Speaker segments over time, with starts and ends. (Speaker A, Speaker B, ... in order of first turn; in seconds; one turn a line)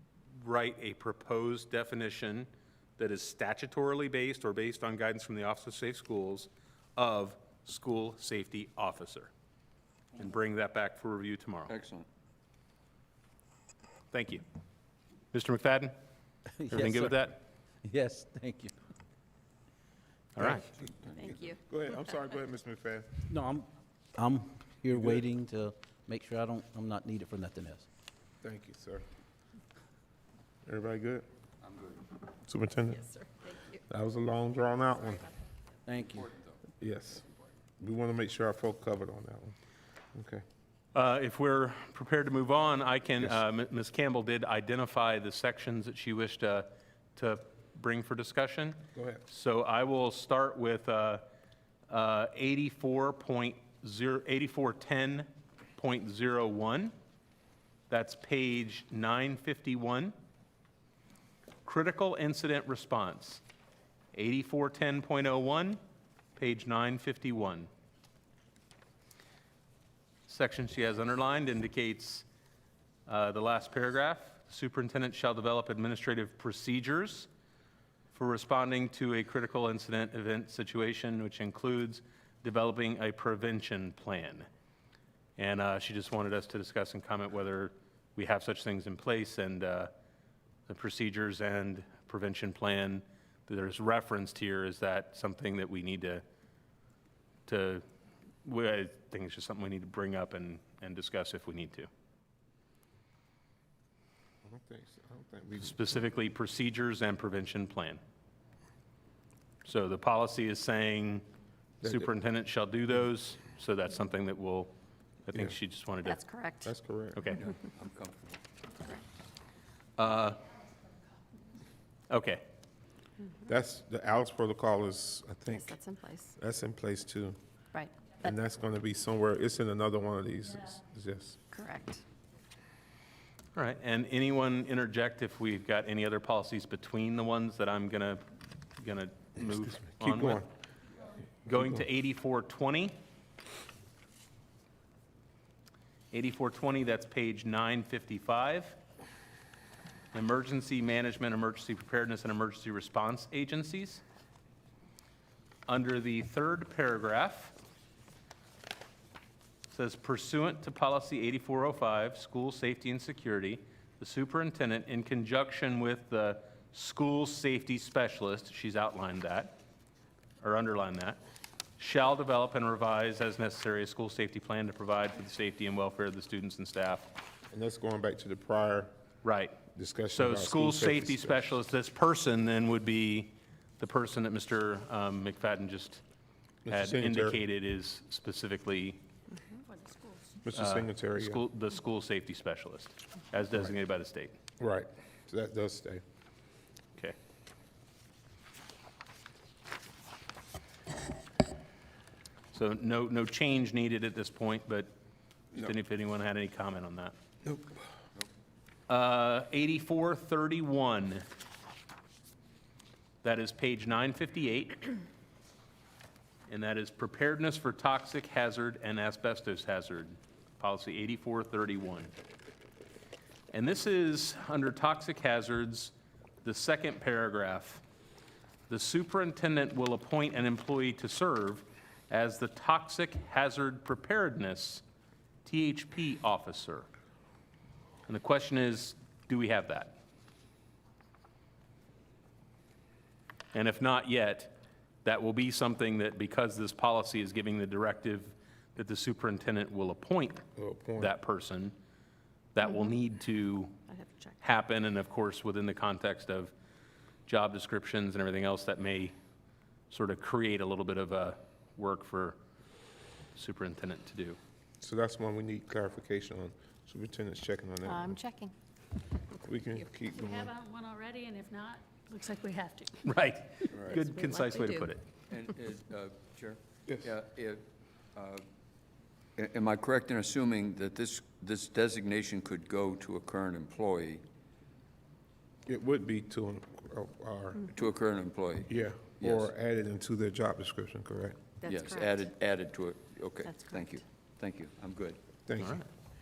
Speaker A: 0.3-9.3
Speaker A: 10.2-11.7
Speaker B: 11.7-12.1
Speaker A: 14.1-14.4
Speaker A: 15.3-15.9
Speaker C: 16.5-18.8
Speaker A: 16.7-17.4
Speaker A: 20.4-20.6
Speaker D: 20.4-23.2
Speaker B: 20.8-21.0
Speaker E: 21.1-21.6
Speaker C: 23.3-27.9
Speaker D: 24.9-25.2
Speaker D: 28.4-29.1
Speaker D: 30.7-31.3
Speaker B: 31.7-32.0
Speaker D: 32.5-33.1
Speaker E: 33.1-33.8
Speaker D: 33.8-35.3
Speaker C: 35.9-36.3
Speaker B: 36.1-36.5
Speaker D: 36.8-37.2
Speaker D: 37.8-39.5
Speaker D: 40.1-40.4
Speaker A: 40.9-51.2
Speaker D: 48.9-49.2
Speaker A: 51.9-56.9
Speaker A: 57.9-60.1
Speaker A: 61.6-63.4
Speaker A: 64.1-65.8
Speaker A: 66.4-67.7
Speaker A: 70.3-72.3
Speaker A: 73.1-77.3
Speaker A: 78.1-84.5
Speaker A: 85.4-89.9
Speaker A: 90.7-96.2
Speaker A: 97.5-97.8
Speaker A: 98.4-101.9
Speaker D: 104.4-106.0
Speaker A: 105.6-108.0
Speaker A: 109.7-111.2
Speaker D: 111.8-112.1
Speaker A: 111.8-114.7
Speaker A: 115.3-116.2
Speaker D: 115.3-115.6
Speaker E: 116.0-116.7
Speaker D: 116.6-117.4
Speaker A: 117.2-117.5
Speaker B: 117.4-118.4
Speaker A: 120.0-120.5
Speaker A: 122.1-122.4
Speaker D: 123.5-125.8
Speaker E: 125.5-126.3
Speaker D: 126.3-127.4
Speaker E: 127.7-128.3
Speaker D: 128.2-131.4
Speaker E: 131.5-132.0
Speaker A: 133.6-138.2
Speaker A: 138.8-140.4
Speaker D: 139.4-140.5
Speaker A: 141.5-143.0
Speaker A: 146.1-148.8
Speaker A: 150.1-154.0
Speaker A: 155.7-157.6
Speaker A: 159.7-169.6
Speaker A: 170.4-171.2
Speaker A: 171.8-177.1
Speaker D: 177.5-178.9
Speaker A: 179.2-179.6
Speaker D: 179.7-181.6
Speaker A: 180.1-186.0
Speaker D: 186.7-187.4
Speaker A: 186.7-189.0
Speaker F: 189.8-190.4
Speaker D: 190.4-191.4
Speaker A: 190.5-194.3
Speaker D: 194.6-196.0
Speaker A: 202.5-204.9
Speaker A: 205.5-207.2
Speaker D: 207.4-207.8
Speaker A: 208.9-211.2
Speaker A: 213.2-215.0
Speaker A: 216.5-222.1
Speaker A: 223.5-225.9
Speaker A: 226.4-227.8
Speaker A: 228.7-234.8
Speaker A: 235.4-236.9
Speaker A: 238.1-240.0
Speaker A: 243.5-250.4
Speaker D: 250.6-251.2
Speaker A: 251.0-251.8
Speaker A: 252.5-253.8
Speaker E: 253.9-254.4
Speaker A: 254.4-256.5
Speaker A: 257.3-259.1
Speaker A: 259.9-262.4
Speaker A: 263.4-264.4
Speaker D: 264.8-268.2
Speaker E: 267.9-268.5
Speaker D: 269.4-270.5
Speaker F: 270.1-273.1
Speaker A: 273.0-275.0
Speaker E: 273.8-274.9
Speaker B: 275.3-277.6
Speaker B: 278.1-278.4
Speaker B: 279.4-284.2
Speaker D: 285.7-287.7
Speaker B: 287.7-289.5
Speaker D: 288.7-291.4
Speaker E: 291.6-292.1
Speaker B: 291.6-295.2
Speaker E: 293.4-294.0
Speaker D: 295.5-295.8
Speaker A: 295.6-295.9